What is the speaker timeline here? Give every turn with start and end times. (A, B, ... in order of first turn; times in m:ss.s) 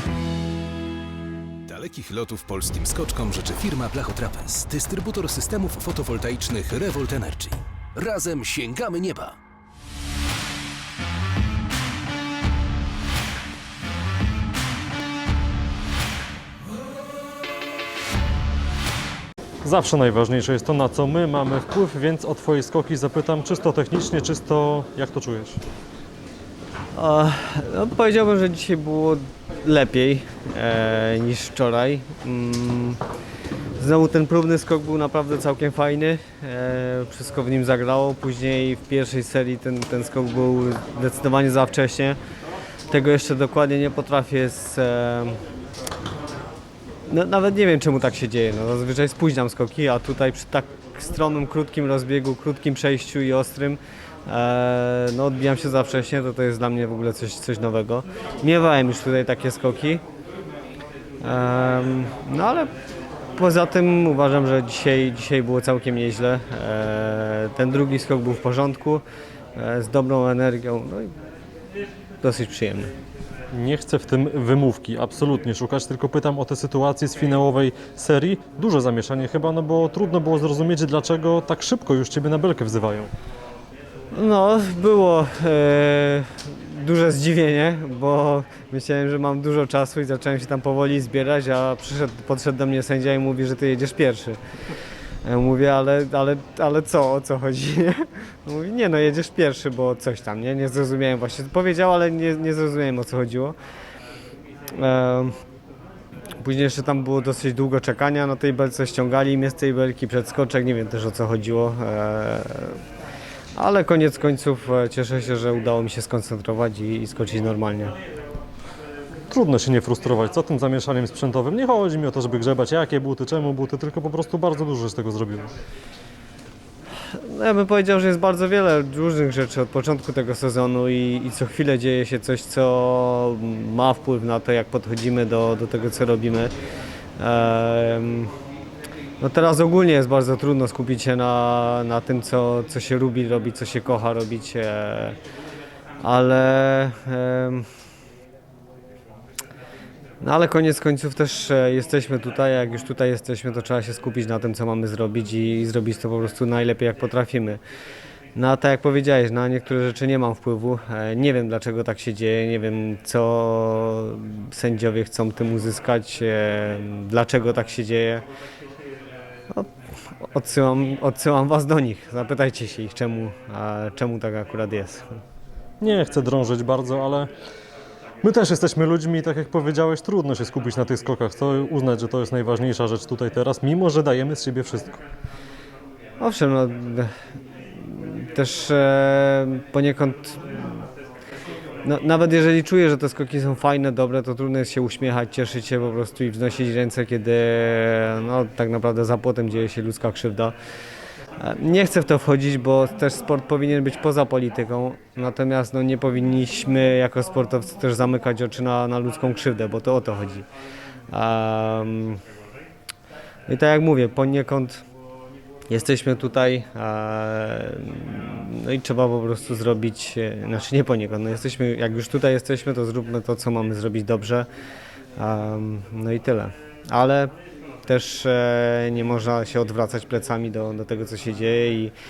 0:01.7-0:09.4 A
0:19.6-0:25.6 B
0:27.0-0:33.0 C
0:33.8-0:42.2 C
0:42.9-0:45.4 C
0:47.1-1:00.0 C
1:01.2-1:02.7 C
1:03.4-1:09.0 C
1:09.6-1:11.1 C
1:12.2-1:12.9 C
1:13.5-1:23.1 B
1:24.1-1:34.4 C
1:35.2-1:43.6 C
1:44.7-1:45.4 C
1:46.4-1:52.8 C
1:53.6-1:58.0 C
1:59.3-2:05.5 B
2:07.1-2:16.5 C
2:17.2-2:18.3 C
2:19.2-2:25.2 C
2:26.0-2:27.7 C
2:30.2-2:37.6 C
2:38.4-2:48.2 C
2:49.5-2:55.2 C
2:55.8-2:57.3 B
2:58.2-3:05.0 B
3:06.2-3:07.1 C
3:07.8-3:10.8 C
3:11.8-3:20.6 C
3:21.4-3:30.5 C
3:31.1-3:32.2 C
3:33.5-3:34.8 C
3:35.7-3:44.5 C
3:45.2-3:47.3 C
3:47.9-3:51.9 C